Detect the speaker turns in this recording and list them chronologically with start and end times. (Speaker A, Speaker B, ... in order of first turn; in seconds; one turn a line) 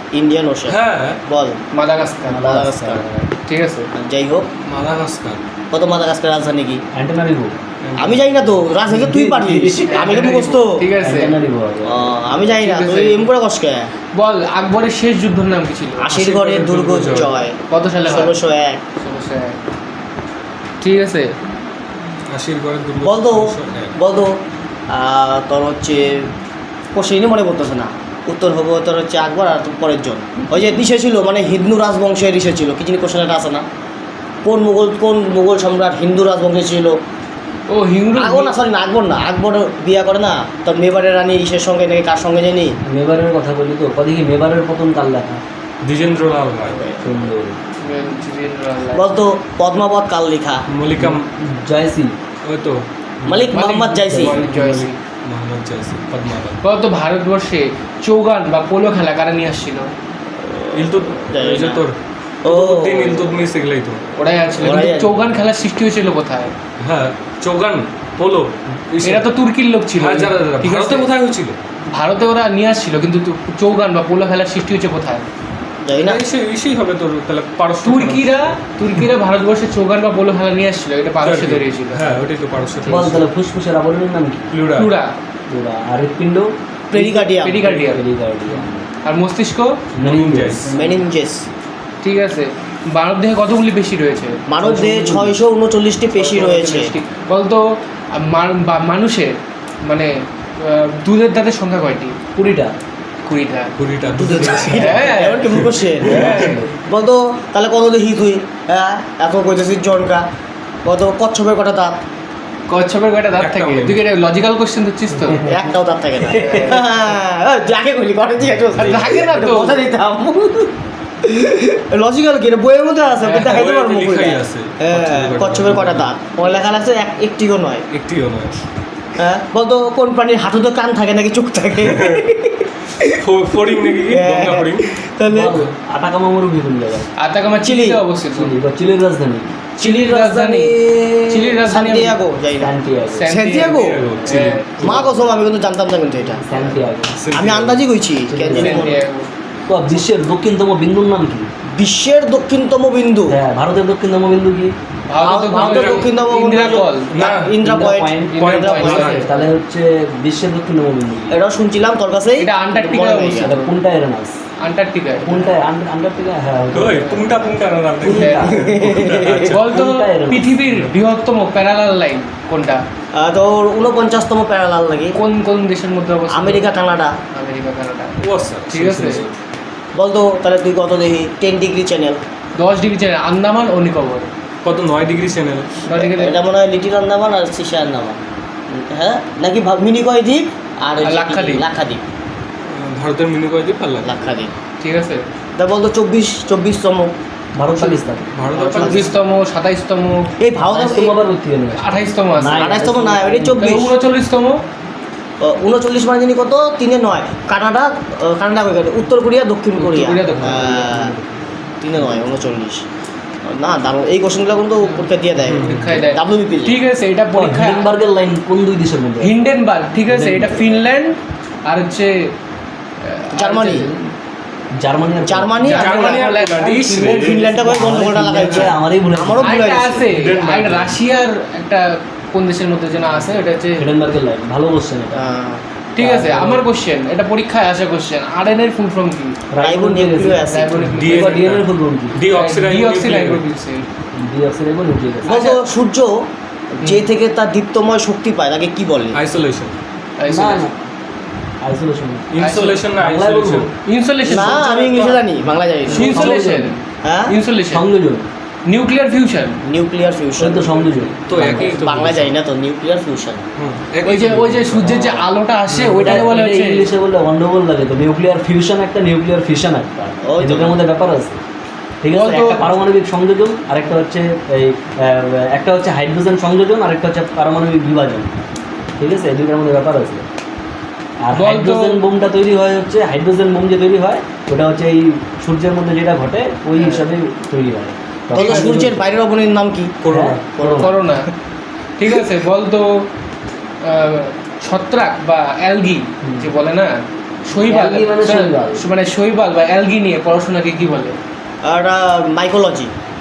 Speaker A: 0.1-1.6
Speaker B: 0.7-1.2
Speaker C: 1.7-2.4
Speaker D: 2.2-3.3
Speaker A: 2.4-3.1
Speaker C: 3.5-3.9
Speaker A: 4.0-4.5
Speaker B: 4.7-5.4
Speaker A: 5.7-6.8
Speaker D: 6.9-7.5
Speaker B: 7.8-8.4
Speaker A: 8.0-10.7
Speaker D: 8.9-10.0
Speaker C: 9.9-11.3
Speaker D: 11.0-12.2
Speaker A: 11.8-13.9
Speaker C: 12.5-13.2
Speaker C: 14.1-16.1
Speaker A: 16.0-18.8
Speaker B: 16.1-17.4
Speaker C: 17.7-18.4
Speaker C: 19.0-19.6
Speaker C: 20.8-21.3
Speaker B: 22.3-23.9
Speaker A: 23.0-23.4
Speaker A: 23.9-24.3
Speaker A: 24.9-26.3
Speaker A: 26.9-33.6
Speaker A: 34.4-37.0
Speaker C: 37.7-38.5
Speaker A: 38.1-42.7
Speaker D: 42.9-45.4
Speaker B: 45.8-46.8
Speaker A: 46.7-47.3
Speaker D: 47.0-47.6
Speaker C: 47.8-49.1
Speaker A: 48.9-50.6
Speaker B: 50.7-51.2
Speaker D: 51.0-52.1
Speaker B: 52.4-56.6
Speaker A: 53.2-54.4
Speaker D: 53.5-54.7
Speaker C: 54.1-55.0
Speaker C: 56.6-59.9
Speaker A: 60.4-61.8
Speaker B: 60.7-64.0
Speaker A: 62.4-63.4
Speaker C: 64.2-66.5
Speaker A: 64.6-65.2
Speaker B: 66.8-69.3
Speaker C: 69.0-71.1
Speaker B: 70.0-71.6
Speaker C: 71.9-75.2
Speaker A: 75.8-76.2
Speaker B: 75.9-78.5
Speaker C: 77.8-82.2
Speaker B: 81.2-83.3
Speaker D: 82.8-84.5
Speaker B: 84.5-84.9
Speaker C: 84.7-85.1
Speaker D: 85.5-86.5
Speaker A: 86.9-87.6
Speaker C: 86.9-88.0
Speaker D: 87.5-88.9
Speaker C: 89.0-89.8
Speaker D: 89.9-91.0
Speaker B: 90.0-90.7
Speaker A: 90.7-91.4
Speaker C: 92.0-94.4
Speaker A: 94.5-96.9
Speaker D: 94.6-95.4
Speaker C: 96.1-97.6
Speaker C: 98.1-99.3
Speaker C: 99.8-102.2
Speaker D: 102.3-102.7
Speaker C: 103.2-103.7
Speaker B: 103.8-106.3
Speaker A: 104.1-110.2
Speaker C: 104.5-106.7
Speaker D: 106.0-106.7
Speaker A: 110.8-112.0
Speaker C: 112.7-115.4
Speaker B: 113.3-114.0
Speaker A: 115.4-120.7
Speaker D: 116.2-116.7
Speaker C: 116.3-116.9
Speaker B: 118.7-119.3
Speaker C: 118.8-119.9
Speaker A: 121.2-127.8
Speaker C: 123.2-123.7
Speaker B: 123.4-126.1
Speaker B: 127.9-128.6
Speaker A: 129.2-133.0
Speaker B: 131.8-132.3
Speaker B: 133.2-134.9
Speaker A: 133.9-135.6
Speaker D: 135.3-137.1
Speaker C: 137.2-138.5
Speaker A: 137.6-138.0
Speaker D: 138.3-139.5
Speaker C: 139.8-140.7
Speaker A: 139.8-142.7
Speaker C: 141.3-142.2
Speaker D: 142.6-143.3
Speaker C: 143.1-144.7
Speaker A: 143.3-144.0
Speaker B: 143.7-145.1
Speaker A: 144.8-146.8
Speaker D: 144.8-145.2
Speaker D: 146.3-147.1
Speaker B: 147.1-147.9
Speaker A: 147.3-148.9
Speaker D: 148.3-148.9
Speaker C: 148.5-149.3
Speaker D: 149.7-151.5
Speaker A: 151.8-153.3
Speaker D: 153.3-154.7
Speaker C: 155.1-157.1
Speaker A: 155.2-159.2
Speaker B: 155.5-156.1
Speaker B: 157.1-157.5
Speaker D: 157.6-161.4
Speaker C: 158.3-159.3
Speaker B: 158.4-159.3
Speaker A: 161.3-163.5
Speaker C: 162.4-163.7
Speaker D: 163.4-164.4
Speaker C: 164.6-165.6
Speaker D: 165.2-167.4
Speaker B: 166.7-169.7
Speaker D: 168.0-168.6
Speaker C: 168.1-168.5
Speaker A: 168.5-169.6
Speaker C: 169.5-172.8
Speaker D: 169.7-170.5
Speaker A: 173.1-175.2
Speaker C: 175.1-176.7
Speaker A: 176.3-177.1
Speaker C: 177.3-178.2
Speaker B: 178.2-179.3
Speaker C: 178.7-179.2
Speaker A: 179.9-182.2
Speaker C: 182.5-184.3
Speaker B: 184.6-185.8
Speaker C: 185.8-186.4
Speaker A: 185.9-188.2
Speaker A: 188.7-192.0
Speaker C: 191.0-191.7
Speaker B: 192.7-194.3
Speaker A: 194.0-194.5
Speaker C: 194.8-195.2
Speaker A: 195.6-197.1
Speaker D: 197.6-198.3
Speaker C: 197.7-198.0
Speaker B: 198.3-199.1
Speaker A: 198.5-199.1
Speaker C: 198.6-200.2
Speaker A: 200.4-201.1
Speaker D: 200.7-203.7
Speaker C: 201.8-202.7
Speaker A: 202.6-203.9
Speaker C: 203.6-204.6
Speaker A: 205.4-211.1
Speaker C: 209.8-210.9
Speaker D: 210.3-211.5
Speaker A: 211.8-212.8
Speaker A: 213.4-216.8
Speaker B: 215.4-216.1
Speaker C: 215.6-217.9
Speaker D: 217.3-219.4
Speaker C: 219.2-222.3
Speaker D: 220.1-220.8
Speaker C: 223.0-224.0
Speaker A: 223.3-223.9
Speaker D: 224.8-225.6
Speaker A: 225.2-226.3
Speaker C: 225.6-227.3
Speaker B: 225.7-228.7
Speaker A: 226.9-230.1
Speaker D: 227.5-229.7
Speaker C: 229.4-233.9
Speaker B: 230.1-231.0
Speaker D: 233.8-235.3
Speaker A: 235.1-235.6
Speaker C: 235.9-239.3
Speaker D: 236.0-236.7
Speaker D: 239.5-242.2
Speaker A: 239.6-240.8
Speaker C: 240.5-241.5
Speaker B: 240.9-243.4
Speaker C: 242.3-243.9
Speaker D: 244.1-245.3
Speaker C: 245.2-245.6
Speaker A: 245.2-246.1
Speaker A: 246.8-249.2
Speaker B: 249.1-249.8
Speaker C: 250.2-250.7
Speaker D: 250.3-250.8
Speaker D: 251.6-252.3
Speaker B: 252.3-253.7
Speaker C: 252.4-252.8
Speaker D: 253.0-253.7
Speaker C: 253.8-255.2
Speaker A: 254.2-256.3
Speaker D: 254.3-254.6
Speaker D: 255.8-256.7
Speaker C: 255.9-257.9
Speaker A: 257.0-257.3
Speaker D: 257.7-258.3
Speaker C: 258.6-259.6
Speaker A: 259.6-263.4
Speaker D: 260.4-261.8
Speaker B: 261.2-262.4
Speaker B: 263.6-265.1
Speaker C: 264.0-266.9
Speaker D: 264.9-265.2
Speaker B: 265.7-266.1
Speaker D: 266.0-271.4
Speaker A: 270.2-270.8
Speaker D: 272.0-278.4
Speaker C: 272.1-272.7
Speaker D: 279.0-280.2
Speaker D: 281.2-289.0
Speaker C: 281.3-282.0
Speaker A: 288.3-289.9
Speaker B: 288.4-288.6
Speaker B: 290.0-290.4
Speaker D: 290.1-290.9
Speaker A: 290.6-291.1
Speaker C: 290.7-291.3
Speaker C: 292.0-292.9
Speaker C: 293.8-301.1
Speaker D: 296.2-296.5
Speaker D: 297.5-298.8
Speaker A: 301.6-302.9